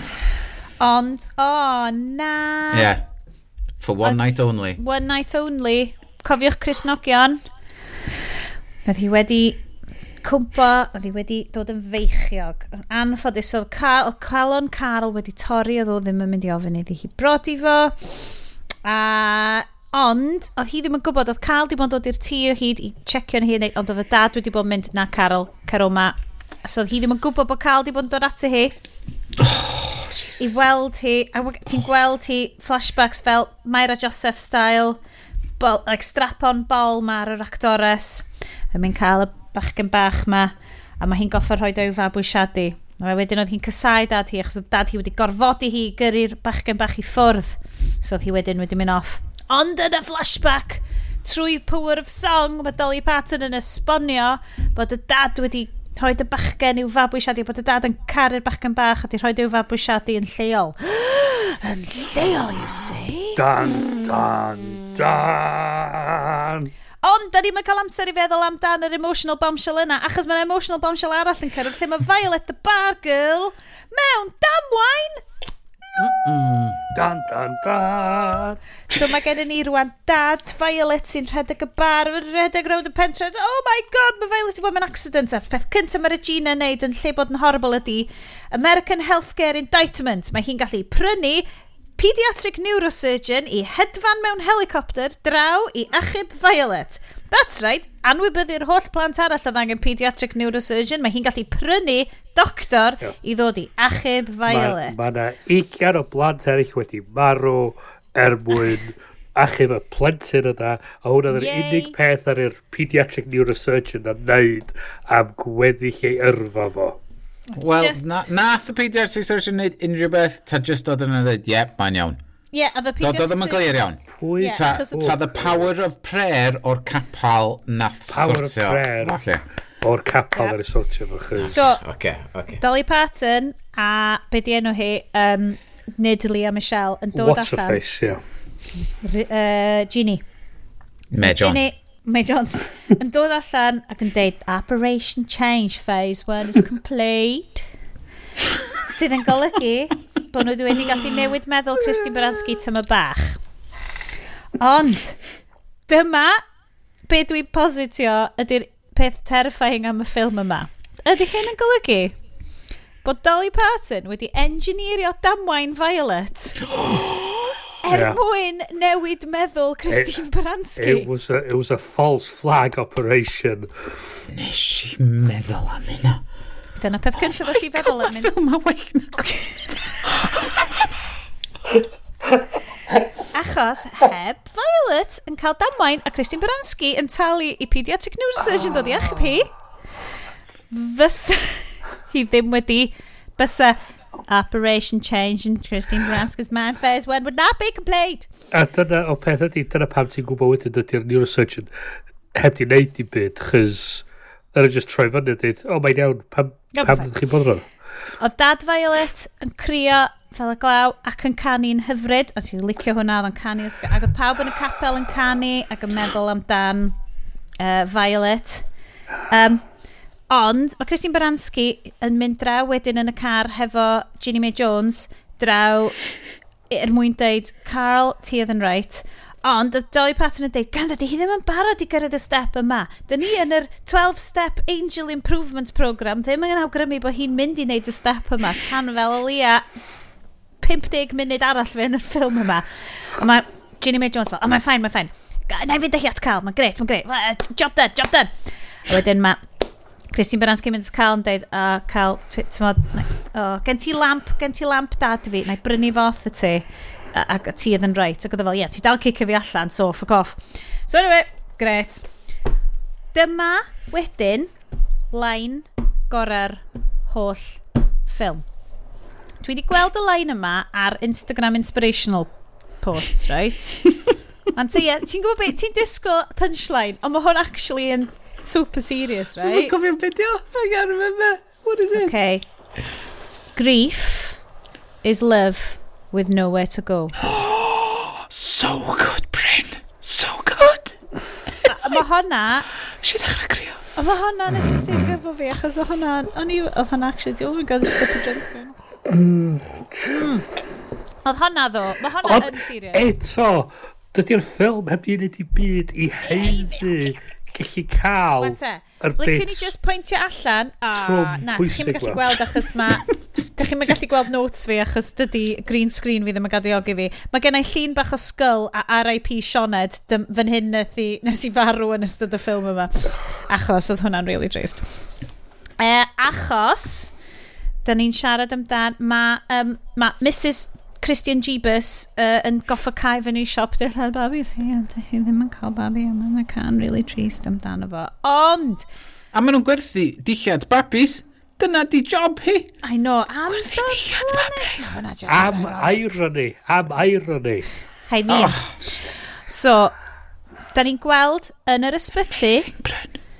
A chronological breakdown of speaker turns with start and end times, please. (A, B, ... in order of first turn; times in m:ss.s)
0:00.8-0:02.9 A
0:02.7-0:03.0 B
0:03.8-0:04.8 B
0:04.0-0:07.4 A
0:08.8-0:09.6 A
0:10.2-0:17.9 A
0:18.8-0:28.8 A
0:29.4-0:30.4 B
0:30.4-0:35.0 A
0:35.6-1:03.4 A
1:03.4-1:06.7 C
1:07.0-1:15.2 A
1:16.0-1:16.8 B
1:16.9-1:19.0 C
1:18.9-1:31.5 A
1:32.0-1:45.0 A
1:44.5-1:57.0 C
1:51.3-1:52.0 A
1:57.6-1:58.0 A
1:57.6-2:02.2 B
2:02.5-2:03.8 A
2:03.0-2:09.4 B
2:04.1-2:05.6 C
2:04.4-2:05.0 A
2:08.1-2:09.2 C
2:09.8-2:11.6 C
2:11.4-2:12.6 B
2:11.5-2:11.8 A
2:12.6-2:17.8 A
2:17.1-2:18.2 C
2:19.0-2:20.2 A
2:21.1-2:21.6 B
2:21.2-2:27.6 A
2:28.8-2:33.4 A
2:34.6-2:35.2 A
2:35.9-2:36.4 A
2:37.1-2:42.2 A
2:43.0-2:51.1 A
2:46.7-2:47.1 B
2:47.9-2:48.2 C
2:49.9-2:50.2 C
2:50.8-2:53.7 C
2:54.3-2:56.2 B
2:56.8-2:58.4 A
2:57.2-2:59.6 B
3:03.3-3:09.5 A
3:10.7-3:18.3 A
3:18.5-3:21.7 C
3:22.4-3:27.6 C
3:26.8-3:27.1 A
3:28.2-3:37.0 A
3:37.6-3:38.6 A
3:39.3-3:39.6 A
3:40.3-3:46.0 A
3:46.7-3:59.6 A
4:00.6-4:08.3 A
4:08.9-4:09.4 A
4:10.1-4:22.0 A
4:23.1-4:24.5 A
4:25.1-4:28.4 A
4:29.4-4:33.9 A
4:34.6-4:39.7 A
4:39.4-4:42.1 B
4:42.0-4:42.4 A
4:43.6-4:44.4 A
4:45.0-4:47.2 A
4:47.2-4:51.0 B
4:51.7-4:52.7 A
4:52.9-4:53.8 B
4:54.0-4:58.8 A
4:54.5-4:55.1 B
4:59.1-5:00.4 C
5:01.2-5:03.0 A
5:02.2-5:09.7 C
5:06.2-5:07.2 A
5:08.4-5:24.8 A
5:10.9-5:12.2 C
5:25.8-5:27.1 A
5:27.8-5:38.9 A
5:39.3-5:42.8 B
5:42.8-5:46.1 A
5:43.5-5:45.0 B
5:45.3-5:47.7 C
5:48.1-5:49.9 A
5:48.3-5:48.7 B
5:50.7-5:52.7 A
5:52.6-5:53.1 B